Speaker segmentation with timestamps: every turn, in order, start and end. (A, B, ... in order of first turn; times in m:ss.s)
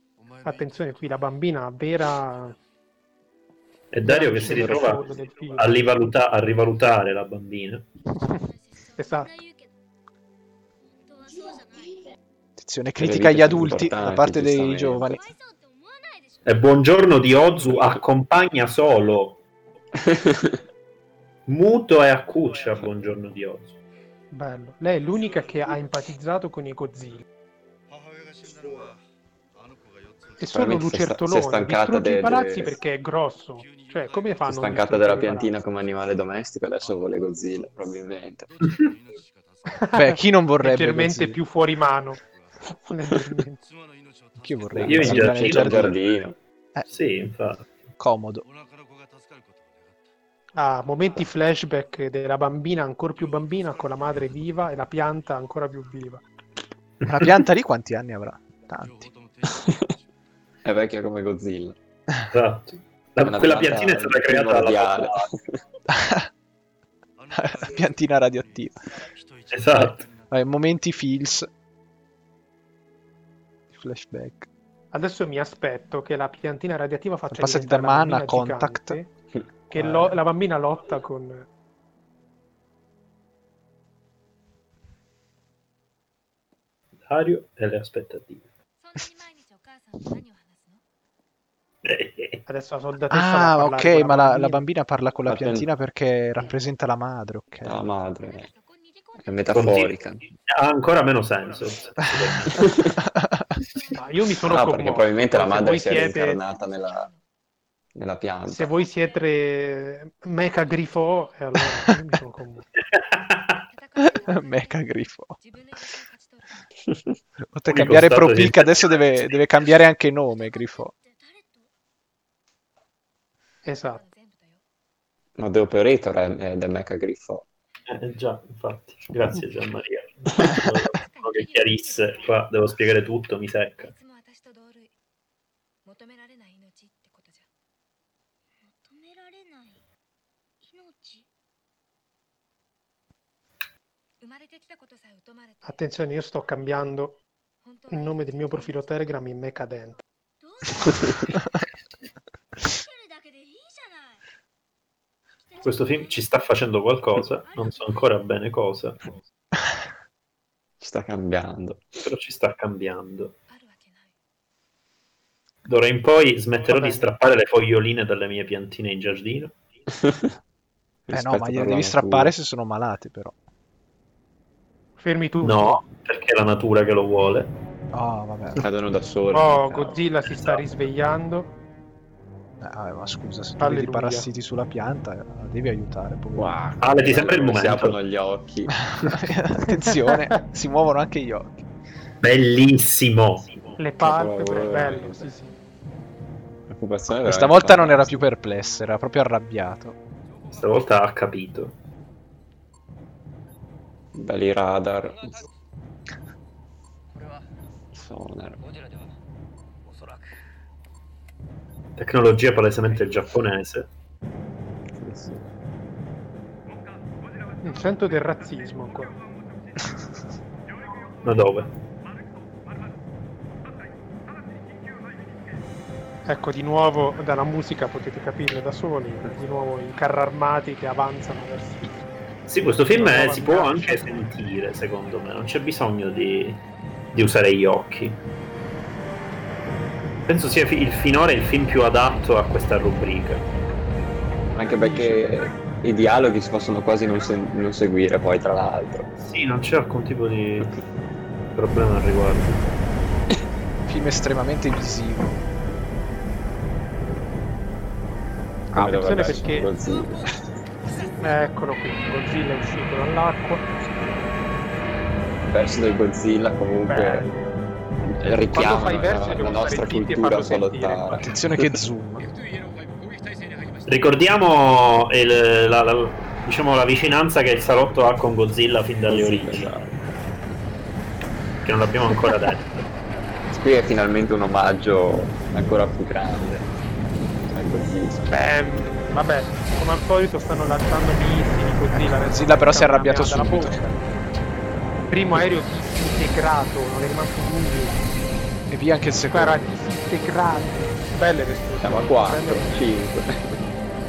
0:00.4-0:02.6 A
0:03.9-0:07.8 B
0:04.0-0:05.8 A
0:04.4-0:05.0 C
0:08.2-0:09.7 D
0:09.0-0:09.3 A
0:10.8-0:12.1 D
0:12.6-0:15.3 E
0:13.0-0:15.2 C
0:15.2-0:17.0 D
0:16.4-0:19.4 B
0:17.7-0:18.0 C
0:20.0-0:20.6 C
0:21.5-0:23.8 B
0:24.3-0:27.2 A
0:30.4-0:35.5 A
0:30.5-0:32.8 C
0:34.4-0:38.5 C
0:39.8-0:42.2 A
0:39.9-0:41.4 E
0:42.8-0:43.6 A
0:44.4-0:45.9 E
0:44.7-0:45.9 B
0:44.8-0:46.4 C
0:46.9-0:47.9 B
0:48.0-0:48.4 E
0:50.6-0:56.2 A
0:57.0-0:59.1 E
0:59.4-0:59.9 C
1:00.6-1:01.8 C
1:02.3-1:05.2 B
1:03.2-1:05.6 C
1:05.9-1:06.3 E
1:07.3-1:08.7 E
1:09.5-1:10.1 B
1:10.3-1:11.5 E
1:13.7-1:14.5 E
1:14.9-1:19.1 A
1:17.3-1:19.0 E
1:19.7-1:21.5 A
1:19.7-1:20.2 E
1:27.0-1:28.5 B
1:28.8-1:30.8 F
1:31.8-1:32.4 B
1:32.4-1:34.6 A
1:33.1-1:37.8 E
1:35.3-1:35.7 C
1:37.6-1:39.8 F
1:37.6-1:38.5 C
1:39.2-1:40.2 C
1:39.5-1:40.0 B
1:40.5-1:42.8 B
1:42.6-1:42.9 C
1:43.0-1:43.5 E
1:43.6-1:44.1 F
1:43.9-1:46.4 A
1:44.4-1:47.1 C
1:45.3-1:47.2 F
1:47.9-1:48.7 C
1:48.5-1:52.6 A
1:48.6-1:49.3 F
1:52.9-1:53.6 B
1:53.7-1:56.7 F
1:54.1-1:55.4 E
1:57.4-2:00.9 E
1:57.7-1:59.3 B
2:00.7-2:01.7 D
2:03.6-2:04.0 A
2:03.6-2:04.6 F
2:05.4-2:07.4 C
2:07.9-2:13.9 B
2:10.9-2:12.5 F
2:13.8-2:14.9 F
2:15.8-2:17.5 F
2:18.6-2:19.8 D
2:20.6-2:21.2 D
2:24.2-2:26.1 F
2:25.6-2:27.2 A
2:27.6-2:29.0 F
2:27.9-2:30.0 A
2:30.4-2:31.2 D
2:32.7-2:34.2 D
2:35.5-2:36.2 D
2:35.6-2:39.0 B
2:37.5-2:38.0 F
2:40.8-2:42.0 C
2:42.0-2:43.4 B
2:43.5-2:44.1 F
2:45.6-2:49.5 B
2:46.7-2:47.1 A
2:49.9-2:50.3 C
2:51.1-2:52.3 C
2:51.1-2:53.3 E
2:55.0-2:55.8 A
2:55.4-2:57.6 B
2:57.9-2:58.6 E
2:58.6-3:00.0 C
2:59.3-3:01.5 A
3:00.3-3:00.7 B
3:02.6-3:06.8 E
3:03.6-3:04.3 A
3:06.3-3:08.8 C
3:06.8-3:08.0 B
3:08.8-3:11.6 E
3:09.8-3:10.2 A
3:12.2-3:13.7 B
3:13.8-3:15.5 A
3:14.0-3:15.3 C
3:16.7-3:18.2 C
3:17.2-3:20.0 E
3:20.5-3:21.8 B
3:24.1-3:25.3 C
3:27.9-3:28.6 C
3:32.0-3:33.9 B
3:35.0-3:35.4 C
3:37.6-3:39.1 A
3:41.2-3:41.7 B
3:46.2-3:52.0 A
3:52.5-3:58.2 B
3:52.9-3:54.1 A
4:00.3-4:03.5 B
4:04.5-4:09.1 C
4:09.2-4:10.8 B
4:11.5-4:12.7 B
4:13.8-4:15.4 E
4:18.7-4:19.4 E
4:18.7-4:20.3 C
4:18.8-4:19.7 A
4:21.2-4:23.7 A
4:25.5-4:27.3 C
4:26.9-4:27.4 A
4:28.1-4:31.8 C
4:28.5-4:31.2 A
4:31.2-4:32.3 E
4:33.9-4:39.8 B
4:39.1-4:39.9 C
4:41.6-4:42.9 B
4:43.5-4:46.7 C
4:47.5-4:48.2 C
4:48.3-4:54.0 A
4:51.9-4:53.8 E
4:55.1-4:58.0 A
4:58.7-4:59.6 E
4:59.3-5:02.7 A
5:01.8-5:03.6 C